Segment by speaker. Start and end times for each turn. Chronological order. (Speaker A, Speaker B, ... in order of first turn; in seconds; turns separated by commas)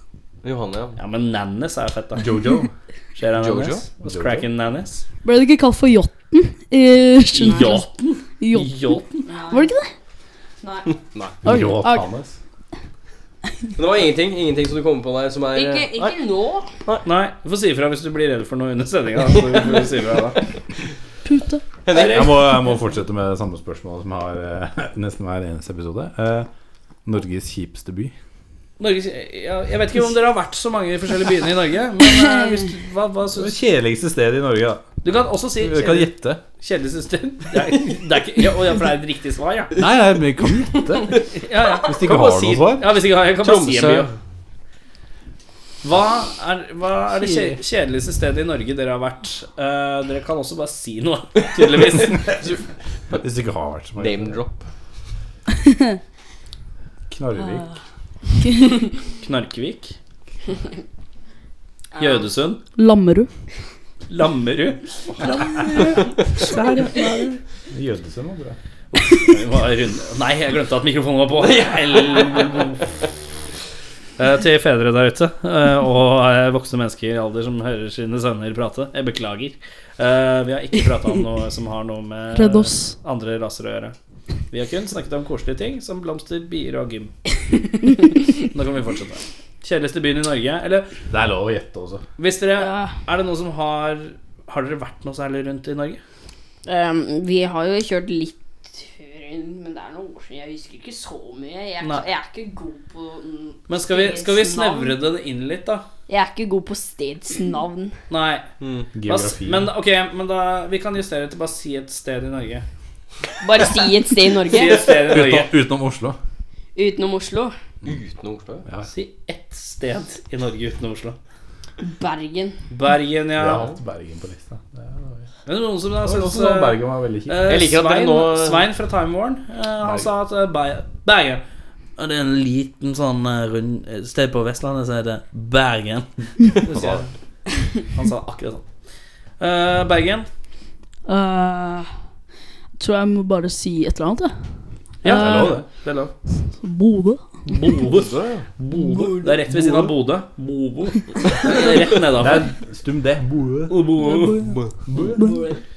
Speaker A: 0.4-1.0, Speaker B: 1.0-2.3, Speaker C: 2.2-2.7, Speaker B: 3.1-5.0, Speaker A: 3.4-3.8, Speaker C: 4.0-4.5, Speaker D: 5.2-7.9, Speaker B: 7.3-9.2, Speaker D: 8.4-9.9, Speaker E: 9.2-9.7, Speaker E: 10.6-10.9, Speaker A: 11.1-11.3, Speaker D: 11.4-12.1, Speaker C: 11.4-12.3, Speaker A: 13.8-16.1, Speaker E: 15.5-16.7, Speaker B: 17.0-20.4, Speaker A: 19.4-19.8, Speaker D: 21.2-21.6, Speaker A: 21.9-22.3, Speaker B: 21.9-22.4, Speaker C: 21.9-26.5, Speaker C: 27.0-28.1, Speaker B: 28.8-33.5, Speaker D: 32.2-32.6, Speaker C: 33.3-35.0, Speaker B: 35.0-39.8, Speaker C: 35.5-36.4, Speaker C: 39.8-41.2, Speaker B: 41.3-44.1, Speaker C: 41.8-42.9, Speaker A: 42.0-42.6, Speaker A: 43.4-44.1, Speaker B: 45.8-52.3, Speaker C: 53.1-54.4, Speaker A: 54.0-54.6, Speaker C: 57.1-57.7, Speaker D: 58.4-58.8, Speaker B: 59.2-60.0, Speaker E: 61.9-62.3, Speaker B: 62.0-62.6, Speaker D: 62.8-63.3, Speaker B: 64.1-67.4, Speaker C: 67.7-68.6, Speaker B: 68.9-72.8, Speaker A: 71.6-72.4, Speaker B: 74.2-83.9, Speaker D: 82.3-83.0, Speaker B: 84.5-87.1, Speaker B: 88.3-90.9, Speaker C: 91.1-92.0, Speaker B: 92.2-96.0, Speaker D: 92.6-92.9, Speaker E: 96.7-105.0, Speaker B: 101.8-102.1, Speaker B: 103.7-105.8, Speaker E: 106.1-107.9, Speaker B: 108.1-108.5, Speaker A: 108.6-108.9, Speaker C: 108.9-109.7, Speaker B: 109.0-112.7, Speaker E: 113.4-114.9, Speaker B: 114.5-115.5, Speaker C: 114.8-116.2, Speaker E: 116.7-117.5, Speaker A: 117.8-118.7, Speaker B: 118.9-121.2, Speaker E: 121.8-122.6, Speaker B: 122.7-123.7, Speaker C: 123.4-125.3, Speaker B: 125.5-131.4, Speaker C: 126.0-127.5, Speaker A: 127.5-128.7, Speaker C: 129.8-130.1, Speaker B: 132.0-137.1, Speaker C: 136.7-137.0, Speaker B: 137.7-138.7, Speaker B: 139.4-140.3, Speaker D: 141.1-141.9, Speaker D: 142.8-145.6, Speaker B: 145.0-146.1, Speaker C: 145.1-145.7, Speaker D: 146.5-147.8, Speaker B: 147.5-152.5, Speaker A: 147.8-148.5, Speaker D: 148.7-149.2, Speaker C: 149.5-149.9, Speaker C: 152.1-153.8, Speaker B: 153.7-154.4, Speaker D: 154.0-154.6, Speaker C: 154.9-155.4, Speaker B: 155.0-155.6, Speaker D: 155.1-155.4